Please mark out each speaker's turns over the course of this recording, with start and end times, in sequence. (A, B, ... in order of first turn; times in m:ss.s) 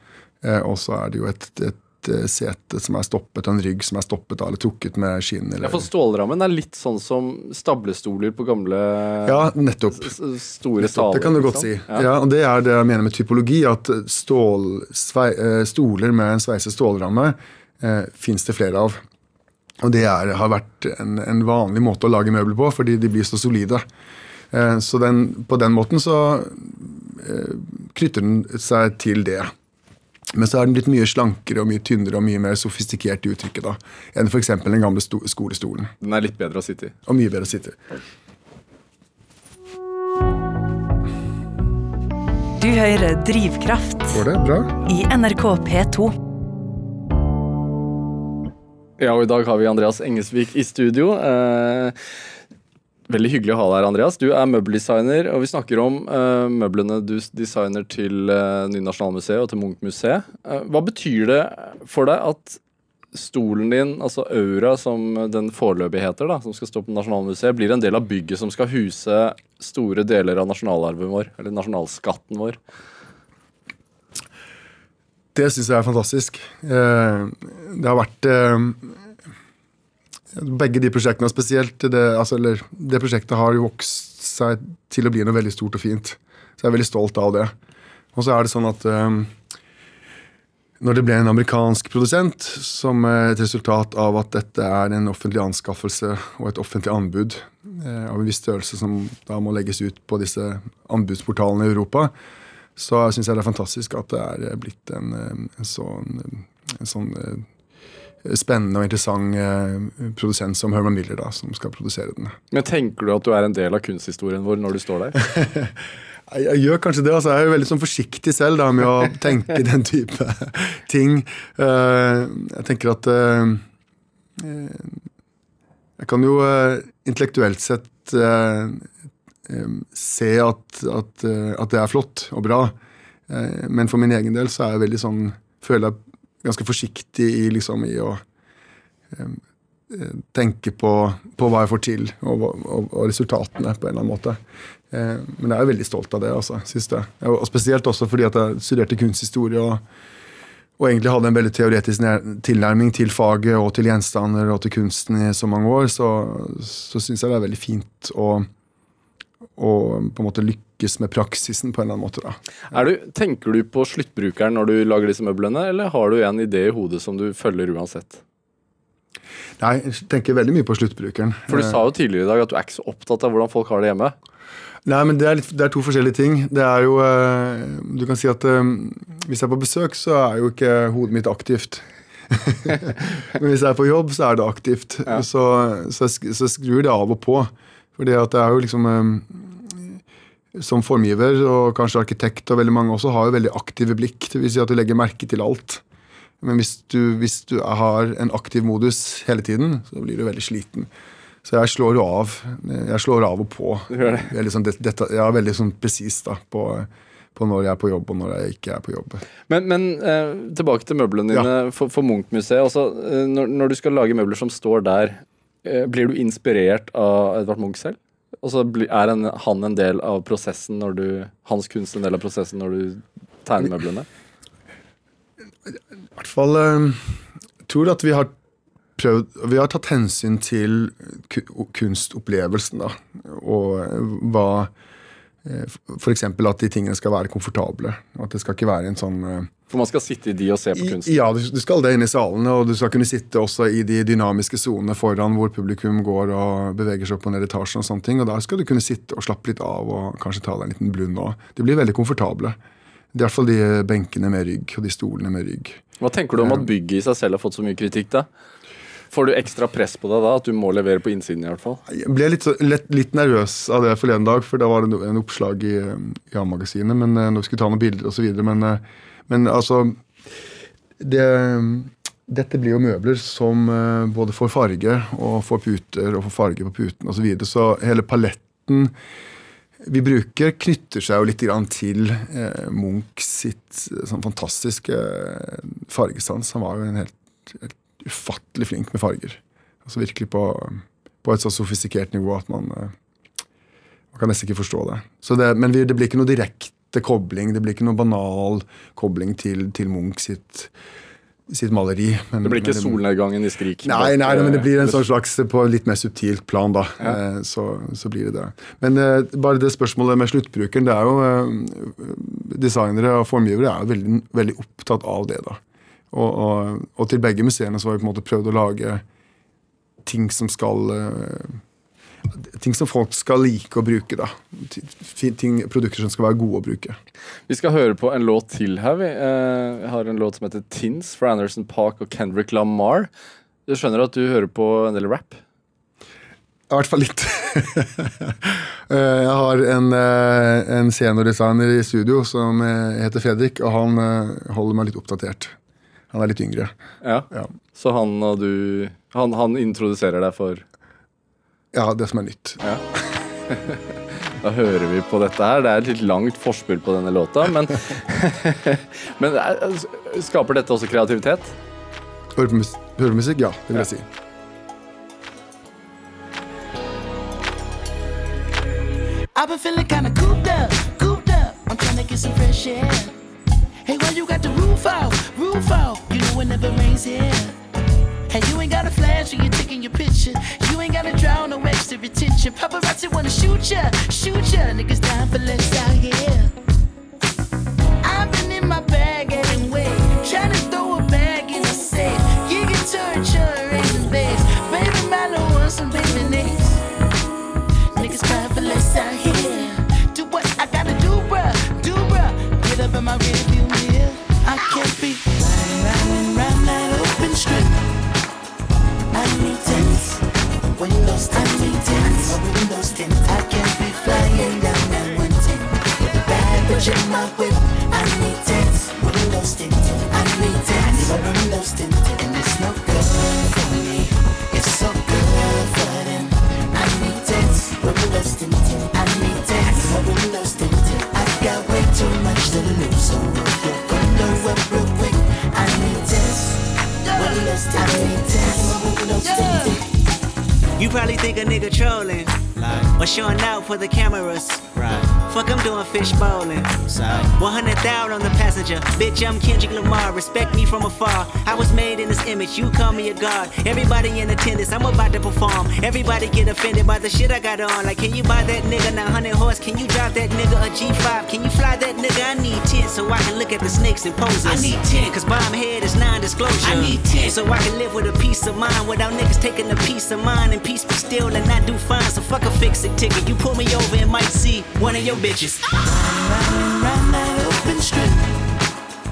0:00.4-0:05.8 A
0:05.6-0:12.1 B
0:09.2-0:10.1 A
0:10.8-0:19.0 A
0:19.8-0:23.8 A
0:24.5-0:29.5 A
0:30.3-0:35.9 A
0:36.0-0:37.0 B
0:37.0-0:37.8 A
0:42.6-0:44.2 C
0:44.1-0:44.8 A
0:44.8-0:46.1 C
0:49.0-0:51.9 B
0:53.1-1:02.6 B
1:03.1-1:12.6 B
1:15.3-1:19.0 A
1:20.3-1:27.5 A
1:28.1-1:29.3 A
1:30.8-1:42.1 A
1:42.8-1:47.4 A
1:48.2-1:52.4 A
1:52.5-1:55.2 B
1:55.2-1:55.7 A
1:56.3-2:03.6 A
2:04.4-2:05.0 A
2:06.0-2:08.9 A
2:09.4-2:12.7 A
2:13.3-2:18.2 A
2:19.1-2:24.4 A
2:24.9-2:29.8 A
2:30.8-2:38.5 A
2:39.6-2:42.4 A
2:42.7-2:48.2 B
2:49.6-2:51.8 A
2:51.5-2:54.1 B
2:54.8-3:10.0 A
3:10.5-3:15.8 A
3:16.4-3:20.9 A
3:21.4-3:29.2 A
3:23.9-3:24.3 B
3:29.5-3:44.1 B
3:45.7-3:48.3 A
3:49.0-3:54.7 A
3:55.4-3:59.5 A
3:59.7-4:01.2 B
4:00.8-4:12.6 A
4:13.1-4:15.8 A
4:16.0-4:18.3 B
4:16.4-4:16.7 A
4:19.1-4:21.8 B
4:21.9-4:30.0 A
4:31.0-4:38.9 A
4:39.8-4:52.9 A
4:54.1-5:00.7 A
5:01.5-5:03.0 A
5:02.4-5:05.0 B
5:03.8-5:15.6 A
5:16.1-5:19.0 A
5:20.0-5:21.6 A
5:22.3-5:27.0 A
5:27.5-5:33.1 B
5:33.7-5:35.4 B
5:36.7-5:45.6 A
5:46.1-5:46.7 A
5:47.0-5:50.6 B
5:51.7-5:53.0 A
5:53.5-5:53.8 B
5:54.4-6:01.5 B
6:02.4-6:04.0 A
6:09.3-6:13.1 D
6:13.8-6:17.6 D
6:18.3-6:26.5 D
6:28.0-6:36.8 D
6:37.9-6:47.8 D
6:49.1-7:19.9 D
7:20.8-7:55.7 E
7:44.4-7:45.1 D
7:46.6-7:47.3 D
7:55.7-7:58.3 D